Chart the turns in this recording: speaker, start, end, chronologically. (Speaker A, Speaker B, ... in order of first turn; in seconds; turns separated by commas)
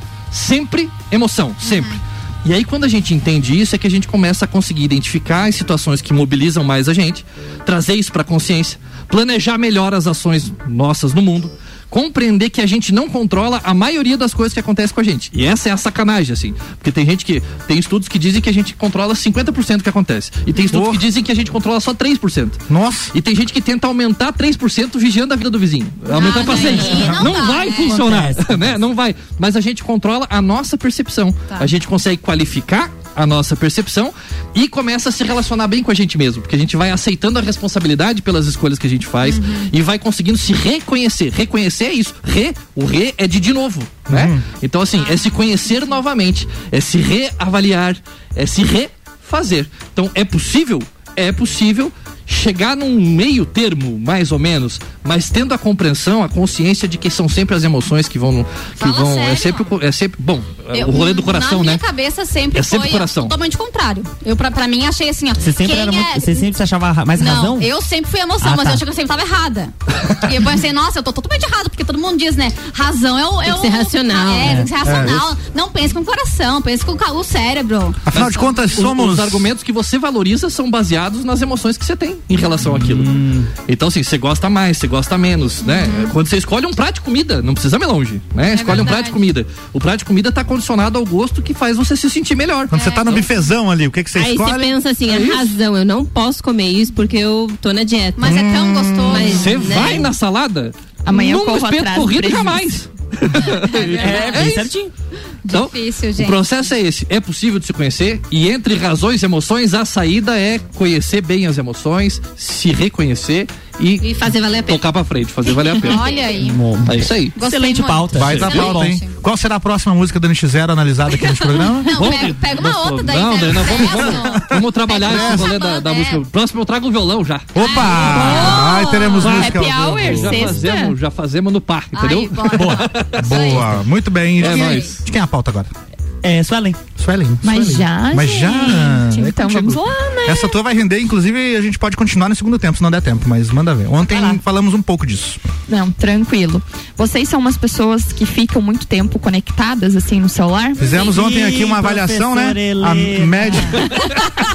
Speaker A: 0.3-22.6, Speaker B: 1.6-1.9, Speaker C: 20.7-21.0, Speaker C: 22.7-23.1, Speaker A: 23.1-61.9, Speaker B: 26.1-28.0, Speaker D: 26.1-27.0, Speaker E: 27.8-28.8, Speaker B: 39.2-39.7, Speaker C: 44.1-44.4, Speaker B: 58.8-59.7, Speaker B: 60.7-66.5, Speaker A: 62.5-63.4, Speaker E: 65.4-67.7, Speaker B: 67.1-78.0, Speaker E: 68.4-68.8, Speaker D: 73.4-74.6, Speaker C: 74.8-75.3, Speaker C: 78.1-79.5, Speaker A: 78.1-93.3, Speaker E: 82.6-83.5, Speaker B: 85.6-86.1, Speaker B: 88.5-89.2, Speaker C: 92.7-94.8, Speaker B: 92.7-93.2, Speaker D: 94.1-98.4, Speaker A: 95.1-95.4, Speaker B: 98.2-99.6, Speaker C: 98.2-99.3, Speaker D: 99.0-100.1, Speaker A: 99.3-104.7, Speaker F: 101.1-102.8, Speaker B: 103.4-104.5, Speaker E: 103.9-104.9, Speaker B: 105.4-106.4, Speaker A: 105.5-116.1, Speaker D: 114.0-114.9, Speaker D: 115.6-116.4, Speaker B: 115.8-116.6, Speaker E: 116.4-119.0, Speaker A: 116.9-117.4, Speaker B: 117.3-119.1, Speaker C: 118.1-122.0, Speaker A: 118.2-118.6, Speaker B: 121.2-126.2, Speaker A: 121.9-128.7, Speaker C: 124.2-124.5, Speaker C: 125.0-125.5, Speaker C: 127.5-130.4, Speaker B: 127.6-128.6, Speaker F: 128.0-130.9, Speaker A: 129.2-133.7, Speaker B: 131.9-133.8, Speaker C: 132.5-135.7, Speaker B: 134.4-134.9, Speaker A: 134.4-135.0, Speaker E: 136.2-136.8, Speaker C: 137.0-145.4, Speaker F: 137.4-140.6, Speaker E: 144.1-144.4, Speaker F: 145.7-150.9, Speaker C: 150.8-153.9, Speaker E: 151.0-153.9